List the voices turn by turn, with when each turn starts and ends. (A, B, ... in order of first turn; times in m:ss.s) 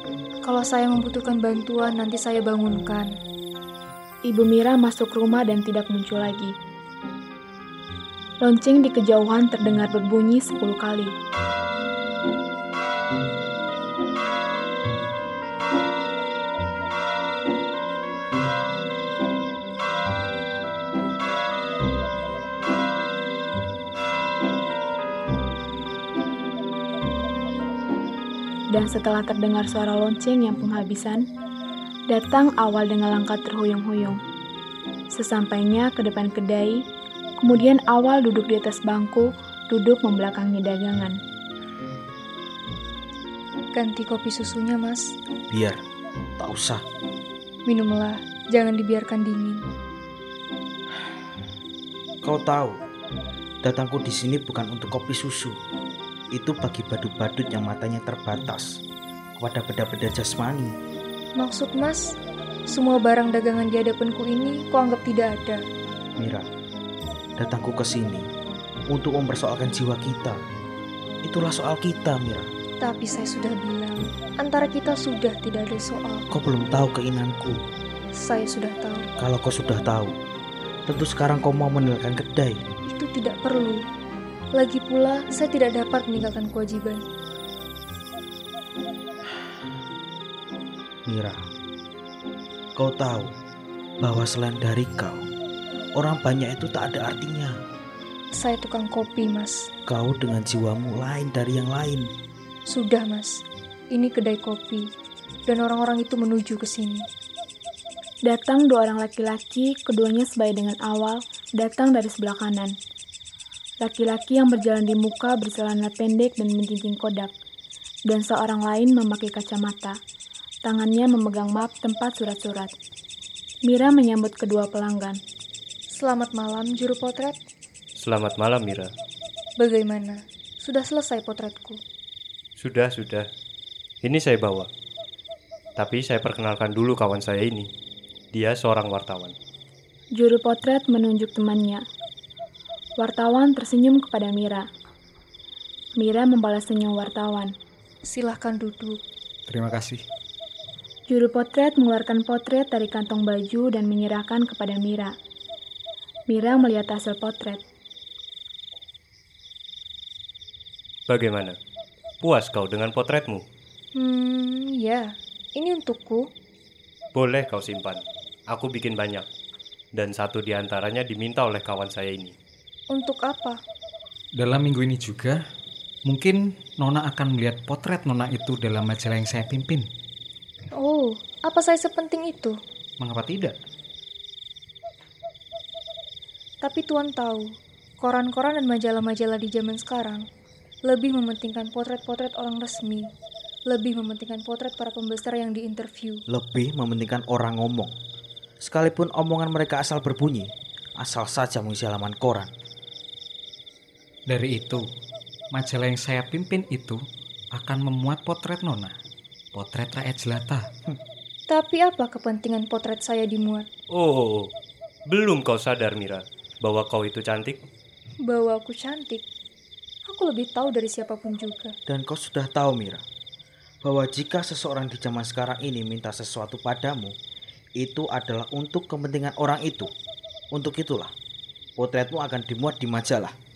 0:00.4-0:03.1 A
0:04.2-0:06.5 B
0:08.4-0:11.1 B
0:28.7-0:31.3 B
0:32.1-0:34.2 B
0:35.1-0:36.8 B
0:37.4-0:41.2 B
0:43.7-0:45.1 A
0:45.5-0:45.8 C
0:46.4-0:46.8 C
0:47.6-0:49.6 A
0:52.2-0:52.8 C
0:53.6-0:55.6 C
0:56.3-0:58.8 C
0:59.4-1:00.7 C
1:01.4-1:02.1 A
1:02.7-1:05.6 A
1:06.2-1:06.5 C
1:07.4-1:08.3 C
1:08.9-1:10.4 C
1:11.2-1:12.5 C
1:12.8-1:16.3 A
1:16.3-1:17.6 C
1:18.1-1:19.1 A
1:19.2-1:20.2 C
1:20.9-1:22.6 C
1:22.8-1:23.8 A
1:24.5-1:27.0 A
1:31.0-1:31.4 C
1:32.8-1:33.3 C
1:34.0-1:35.2 C
1:36.0-1:37.6 C
1:38.3-1:39.7 A
1:39.8-1:42.1 C
1:42.7-1:44.9 A
1:45.4-1:47.0 A
1:48.2-1:52.7 B
1:53.8-1:57.3 B
1:58.1-2:00.0 B
2:00.6-2:02.7 B
2:03.6-2:05.2 B
2:05.9-2:07.4 A
2:08.0-2:08.9 D
2:09.6-2:11.8 A
2:12.6-2:13.2 D
2:14.1-2:14.7 D
2:15.8-2:17.6 D
2:18.4-2:19.3 D
2:20.1-2:21.8 B
2:23.0-2:24.7 B
2:26.0-2:27.5 B
2:28.0-2:29.0 A
2:29.5-2:30.0 E
2:31.1-2:35.1 B
2:36.3-2:37.6 B
2:41.1-2:41.5 D
2:42.2-2:43.4 D
2:43.9-2:46.3 A
2:47.2-2:48.0 D
2:48.6-2:49.2 D
2:50.0-2:52.3 D
2:52.9-2:53.6 A
2:54.4-2:55.4 E
2:56.0-2:59.9 E
3:00.7-3:02.6 A
3:03.0-3:03.6 E
3:06.6-3:10.2 A
3:10.8-3:13.1 A
3:13.7-3:16.2 A
3:16.3-3:17.9 C
3:18.6-3:22.5 C
3:24.3-3:24.8 E
3:25.5-3:27.0 E
3:27.5-3:29.0 E
3:29.5-3:30.7 E
3:31.5-3:33.7 A
3:34.0-3:34.5 D
3:35.1-3:37.5 D
3:38.2-3:39.2 A
3:40.1-3:41.7 A
3:41.9-3:43.0 C
3:43.8-3:47.1 C
3:47.8-3:49.9 C
3:50.5-3:51.1 C
3:51.8-3:53.3 C